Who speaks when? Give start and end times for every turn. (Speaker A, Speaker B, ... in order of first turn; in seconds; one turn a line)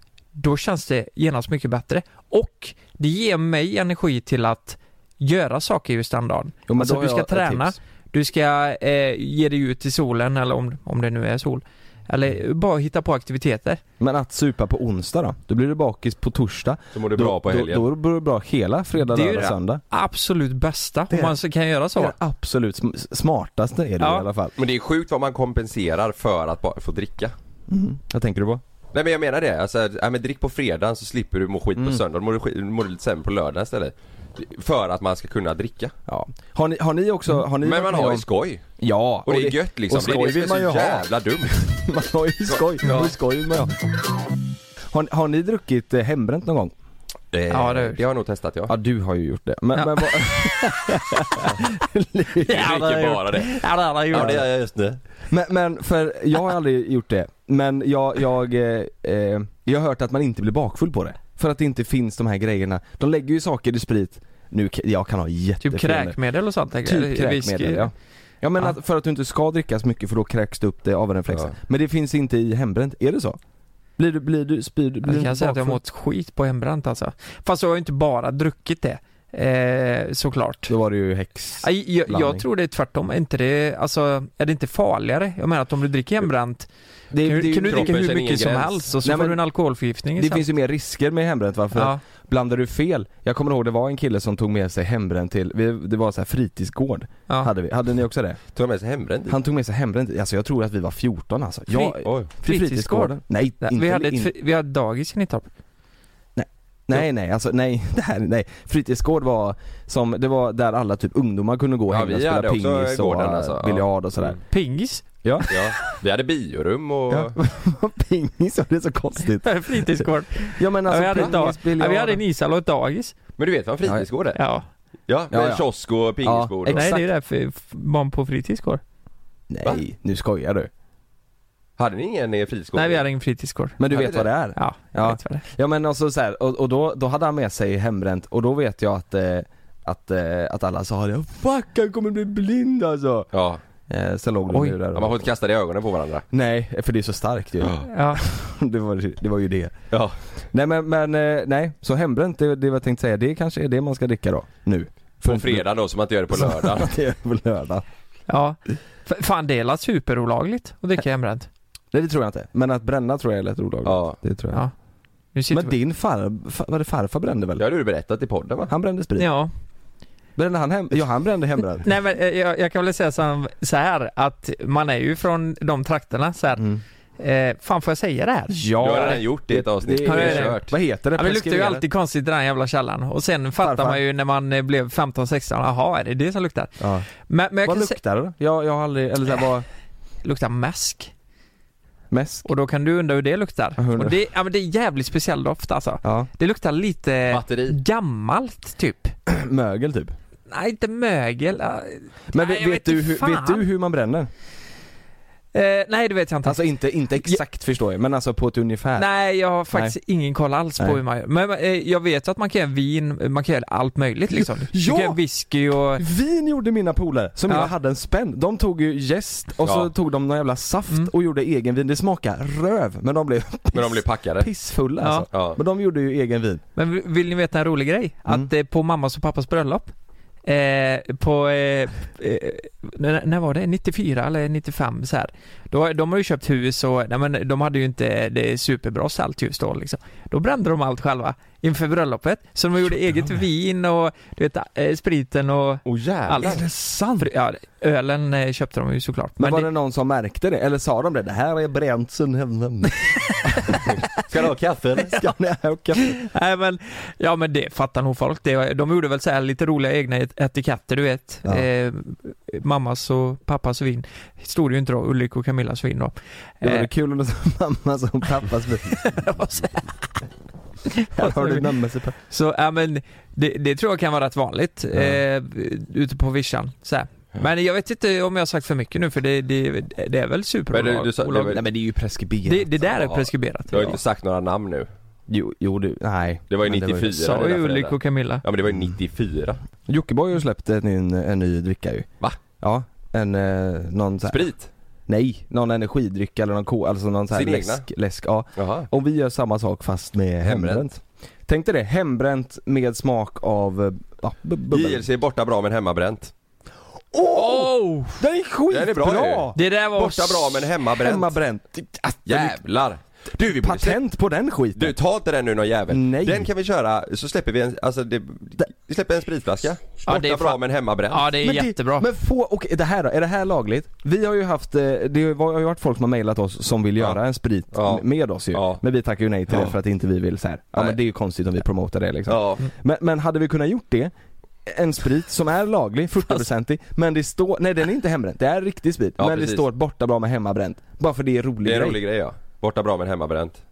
Speaker A: 0.4-13.8
Speaker B: 6.7-7.8
Speaker B: 14.0-19.8
Speaker C: 16.9-17.9
Speaker A: 19.0-22.1
Speaker B: 21.1-21.4
Speaker B: 22.0-24.5
Speaker A: 24.0-24.3
Speaker C: 24.6-27.3
Speaker B: 27.7-28.6
Speaker C: 28.9-36.0
Speaker B: 31.8-32.0
Speaker B: 36.1-38.3
Speaker C: 37.6-38.6
Speaker B: 38.8-43.7
Speaker C: 39.3-41.6
Speaker C: 42.5-43.1
Speaker B: 44.9-46.7
Speaker C: 47.3-48.8
Speaker A: 47.5-48.0
Speaker B: 48.7-52.8
Speaker A: 49.8-50.8
Speaker C: 52.4-55.0
Speaker A: 52.4-54.4
Speaker B: 54.1-54.5
Speaker B: 55.3-66.2
Speaker A: 65.6-67.9
Speaker B: 66.8-73.4
Speaker B: 74.0-75.8
Speaker A: 75.0-80.8
Speaker B: 80.7-82.5
Speaker A: 81.6-90.4
Speaker B: 87.1-88.0
Speaker C: 87.6-88.8
Speaker B: 89.0-89.4
Speaker B: 90.2-98.4
Speaker A: 91.7-92.0
Speaker C: 98.5-99.4
Speaker B: 99.3-104.3
Speaker A: 101.7-105.5
Speaker C: 102.0-102.3
Speaker B: 106.4-114.4
Speaker C: 111.9-114.4
Speaker A: 114.5-115.6
Speaker B: 115.2-115.5
Speaker C: 115.5-117.4
Speaker B: 117.1-122.2
Speaker A: 119.4-123.2
Speaker C: 123.4-124.4
Speaker A: 124.3-124.7
Speaker C: 125.1-126.9
Speaker B: 125.3-125.7
Speaker B: 126.2-127.1
Speaker A: 126.7-128.8
Speaker B: 129.5-130.7
Speaker C: 131.8-133.0
Speaker A: 132.7-133.8
Speaker B: 133.8-143.3
Speaker C: 133.9-134.2
Speaker A: 134.6-135.4
Speaker C: 143.3-143.6
Speaker B: 143.9-145.3
Speaker A: 144.5-144.8
Speaker C: 144.9-146.2
Speaker B: 146.3-149.8
Speaker A: 147.9-148.2
Speaker C: 149.9-150.2
Speaker B: 150.5-155.7
Speaker C: 155.2-156.9
Speaker B: 156.3-157.8
Speaker A: 158.3-161.5
Speaker B: 161.9-164.6
Speaker C: 163.8-164.2
Speaker A: 165.3-165.8
Speaker B: 165.5-167.6
Speaker C: 167.6-168.7
Speaker B: 168.7-169.3
Speaker A: 169.2-169.5
Speaker B: 170.4-171.9
Speaker A: 171.8-179.2
Speaker B: 178.5-181.8
Speaker C: 178.8-180.7
Speaker A: 180.0-188.0
Speaker B: 183.6-184.0
Speaker B: 186.8-187.1
Speaker B: 187.7-189.7
Speaker A: 190.2-191.1
Speaker B: 192.1-192.5
Speaker A: 192.4-199.1
Speaker B: 193.8-194.2
Speaker B: 196.0-196.3
Speaker C: 197.3-197.8
Speaker B: 199.3-200.2
Speaker A: 200.5-203.7
Speaker B: 202.3-204.3
Speaker A: 205.5-206.6
Speaker B: 206.4-209.1
Speaker A: 209.0-216.1
Speaker B: 209.7-210.0
Speaker B: 214.3-215.2
Speaker B: 216.0-226.6
Speaker C: 219.6-219.9
Speaker C: 223.7-224.5
Speaker A: 225.0-225.3
Speaker C: 225.3-225.6
Speaker A: 226.8-229.9
Speaker A: 230.5-246.7
Speaker C: 245.8-246.7
Speaker B: 246.4-247.3
Speaker A: 247.2-249.7
Speaker B: 249.4-253.9
Speaker A: 253.1-253.6
Speaker C: 254.3-255.3
Speaker B: 255.1-256.2
Speaker A: 255.9-266.9
Speaker B: 266.6-269.2
Speaker A: 268.9-270.1
Speaker A: 270.9-271.7
Speaker B: 271.1-272.2
Speaker A: 272.3-281.6
Speaker B: 274.9-275.2
Speaker C: 280.7-281.6
Speaker B: 281.5-282.7
Speaker A: 282.4-284.0
Speaker C: 282.8-284.9
Speaker B: 285.3-287.3
Speaker C: 286.5-289.6
Speaker A: 287.1-288.4
Speaker B: 289.9-292.1
Speaker B: 292.6-294.5
Speaker C: 294.3-294.7
Speaker B: 295.1-305.1
Speaker C: 297.3-297.9
Speaker C: 298.6-298.9
Speaker C: 300.4-300.9
Speaker C: 304.7-306.3
Speaker B: 307.1-309.6
Speaker A: 307.3-308.2
Speaker C: 308.7-311.3
Speaker A: 309.6-310.7
Speaker B: 311.0-312.6
Speaker C: 312.3-314.0
Speaker B: 313.5-314.9
Speaker C: 314.8-321.3
Speaker B: 315.9-316.5
Speaker A: 320.1-322.1
Speaker B: 321.4-334.1
Speaker C: 327.7-328.8
Speaker C: 332.3-332.7
Speaker B: 334.6-342.0
Speaker C: 339.2-339.7
Speaker C: 341.6-343.6